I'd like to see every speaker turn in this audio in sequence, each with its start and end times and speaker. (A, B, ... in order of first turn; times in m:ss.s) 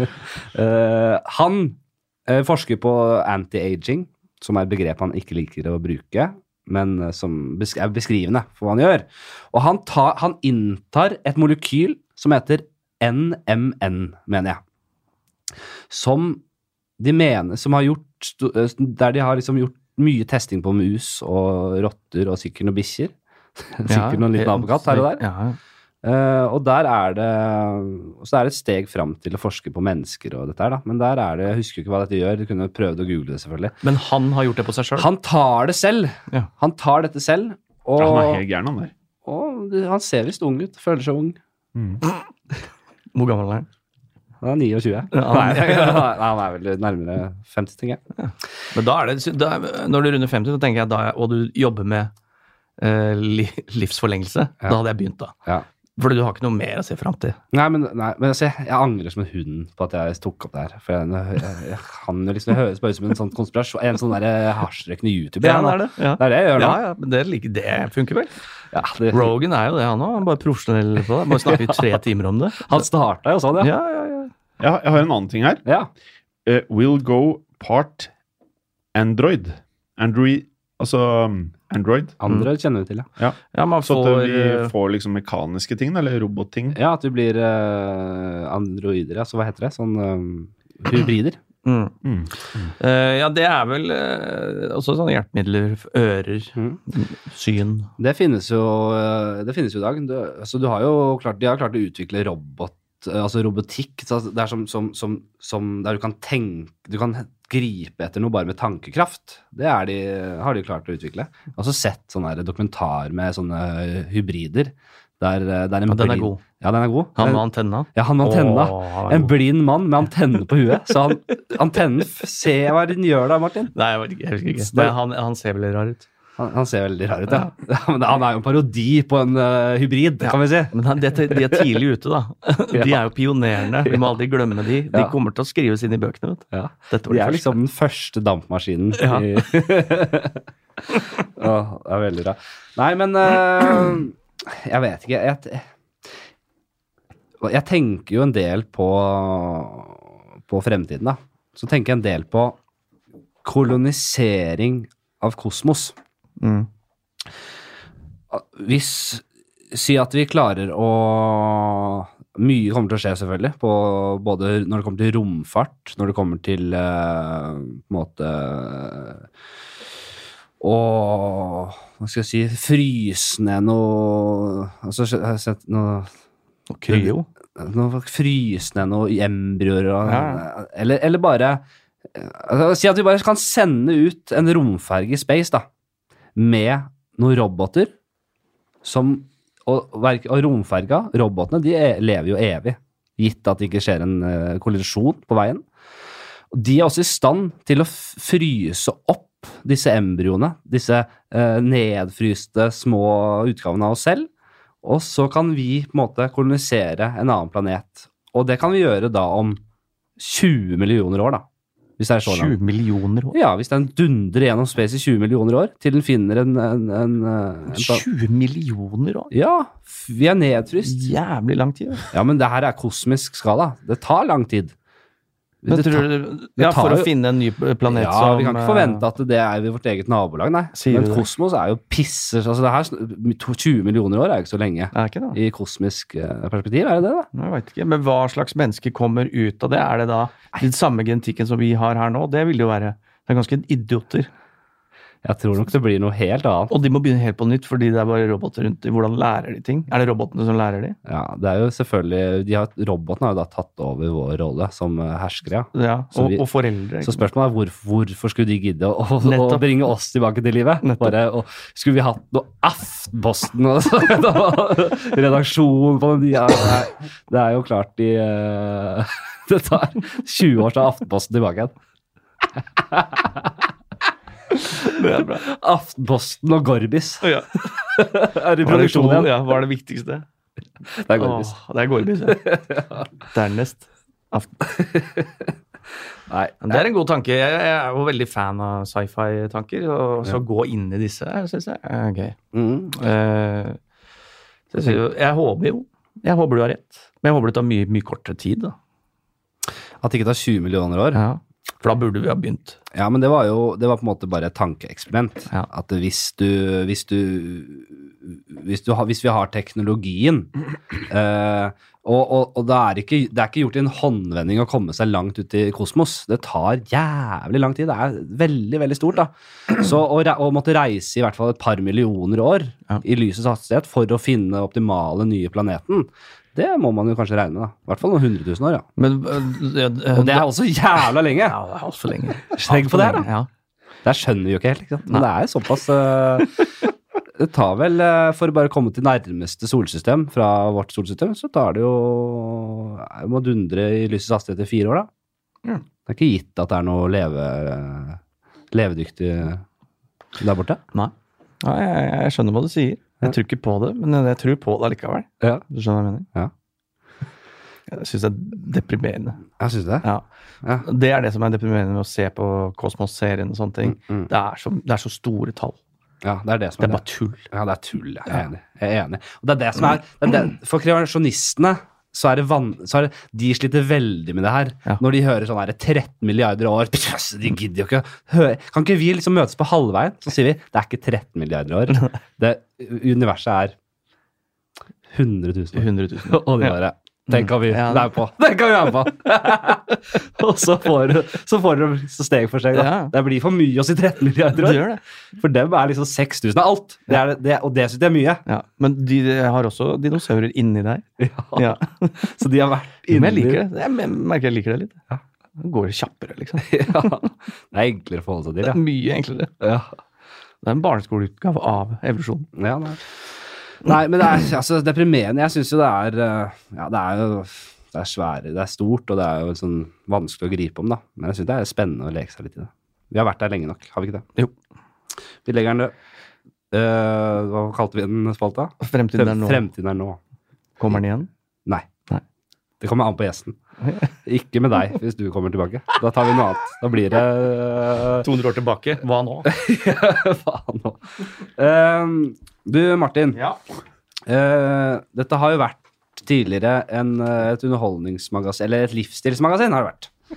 0:00.3-0:14.6 A
0:15.9-0:16.4 A
0:17.0-0:25.2 A
0:23.9-0:25.6 B
0:26.0-0:33.8 A
0:33.8-0:35.1 B
0:35.0-0:38.4 A
0:38.0-0:38.9 C
0:39.2-0:41.4 A
0:41.7-0:42.0 C
0:43.1-0:43.7 B
0:44.4-0:48.0 A
0:45.1-0:46.1 B
0:48.2-0:52.1 B
0:52.8-0:55.3 B
0:56.0-0:57.4 B
0:57.5-1:06.8 A
1:05.4-1:08.3 B
1:08.7-1:09.3 A
1:09.1-1:12.8 B
1:11.3-1:11.8 A
1:12.6-1:13.7 A
1:13.6-1:14.3 B
1:14.6-1:15.6 C
1:15.6-1:15.9 A
1:16.4-1:18.1 C
1:18.9-1:22.2 C
1:22.2-1:23.1 A
1:23.2-1:26.8 C
1:23.5-1:24.7 B
1:26.7-1:31.4 A
1:31.6-1:31.9 B
1:32.0-1:32.7 C
1:32.8-1:37.9 B
1:38.0-1:57.4 A
1:55.9-1:56.4 B
1:57.2-1:59.3 B
1:57.9-2:03.7 A
2:03.7-2:06.1 B
2:06.4-2:10.8 A
2:10.2-2:17.5 B
2:11.3-2:11.6 A
2:12.7-2:13.0 A
2:13.8-2:14.1 A
2:16.5-2:25.6 A
2:19.0-2:19.3 B
2:27.4-2:32.6 A
2:33.4-2:35.9 A
2:36.4-2:36.7 B
2:38.3-2:49.3 A
2:50.6-2:56.1 A
2:56.7-2:57.2 B
2:56.9-3:05.6 A
3:00.0-3:00.4 B
3:06.4-3:07.9 A
3:08.8-3:15.6 A
3:16.5-3:24.3 A
3:24.8-3:29.6 A
3:30.2-3:31.4 A
3:32.0-3:32.5 A
3:32.2-3:33.4 B
3:33.3-3:38.0 A
3:37.7-3:39.3 B
3:39.3-3:41.0 A
3:40.8-3:42.1 B
3:42.1-3:44.7 A
3:45.6-3:47.1 A
3:45.7-3:49.0 B
3:47.9-3:57.3 A
3:50.7-3:51.3 B
3:54.9-3:55.4 B
3:57.3-4:04.3 B
4:05.2-4:06.7 A
4:06.7-4:11.0 B
4:11.0-4:16.4 A
4:15.7-4:17.2 B
4:17.0-4:31.7 A
4:19.2-4:19.6 B
4:20.8-4:21.1 B
4:32.9-4:33.5 A
4:34.8-4:35.4 B
4:35.4-4:39.3 A
4:37.2-4:37.6 B
4:38.6-4:40.2 B
4:41.0-4:41.5 A
4:41.1-4:42.6 B
4:42.4-4:43.0 A
4:43.3-4:44.5 B
4:44.7-4:45.5 A
4:46.3-4:46.8 A
4:46.6-4:52.4 B
4:52.5-4:52.9 A
4:52.9-4:53.8 B
4:54.7-4:58.7 B
5:00.0-5:01.2 A
5:01.1-5:02.8 B
5:02.9-5:10.5 A
5:11.1-5:28.8 A
5:29.0-5:30.4 B
5:30.1-5:31.6 A
5:31.4-5:33.5 B
5:32.5-5:33.3 A
5:34.0-5:36.6 A
5:37.4-5:45.1 A
5:46.1-5:48.2 A
5:48.7-5:49.6 A
5:50.4-5:50.8 A
5:50.9-5:56.3 B
5:57.9-5:59.4 B
5:59.6-6:00.1 A
6:00.8-6:05.8 B
6:03.9-6:04.3 A
6:06.2-6:23.7 A
6:06.8-6:07.5 B
6:25.1-6:34.8 A
6:25.8-6:26.8 B
6:27.3-6:28.1 B
6:32.7-6:33.1 B
6:34.5-6:35.0 B
6:35.4-6:38.4 A
6:38.5-6:42.2 B
6:41.2-6:43.6 A
6:43.1-6:45.0 B
6:45.6-6:47.3 B
6:46.6-6:48.8 A
6:48.6-6:49.5 B
6:49.6-6:49.9 A
6:50.6-6:52.5 B
6:52.6-6:53.0 A
6:53.8-7:04.2 A
7:05.4-7:05.9 A
7:06.7-7:10.2 A
7:08.8-7:09.6 B
7:10.8-7:11.3 B
7:12.8-7:13.6 A
7:13.8-7:14.1 B
7:14.2-7:18.3 A
7:18.2-7:19.5 B
7:19.4-7:21.0 A
7:21.6-7:23.4 A
7:24.3-7:30.1 A